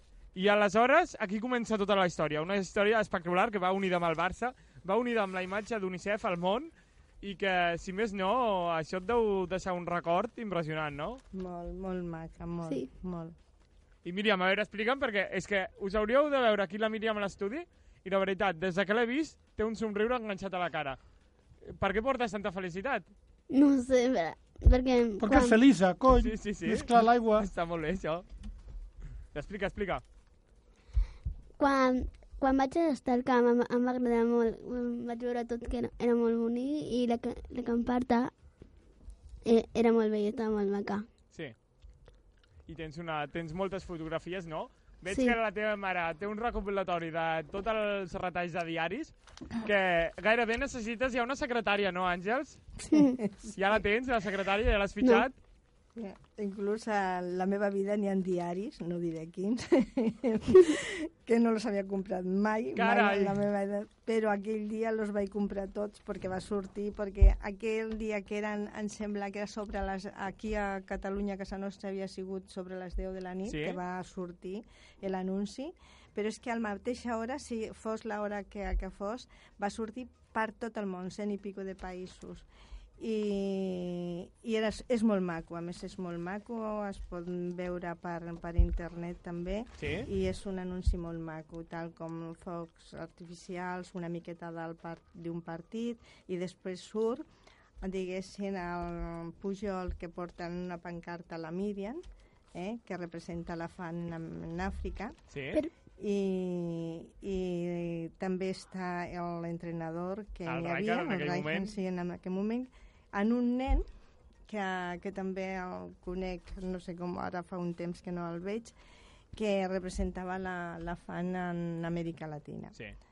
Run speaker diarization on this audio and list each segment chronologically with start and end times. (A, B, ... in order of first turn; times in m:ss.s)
0:00.3-0:11.2 A
0:11.3-0:13.3 B
0:14.0-0:21.0 A
0:21.6-0:23.1 A
0:23.5-0:25.6 C
0:25.2-0:27.5 D
0:26.2-0:28.2 A
0:29.3-0:30.0 A
0:31.6-0:38.3 C
0:39.4-0:41.0 C
0:42.7-0:52.6 A
0:52.9-0:53.2 C
0:52.9-0:53.5 B
0:53.5-0:55.3 A
0:56.0-1:22.4 B
1:02.8-1:03.4 A
1:13.5-1:13.8 A
1:23.0-1:37.2 B
1:29.8-1:30.1 A
1:37.8-1:42.0 B
1:42.5-1:45.1 B
1:45.3-1:45.6 A
1:46.0-1:53.8 B
1:50.5-1:51.7 A
1:54.5-1:58.7 B
1:59.3-2:02.7 B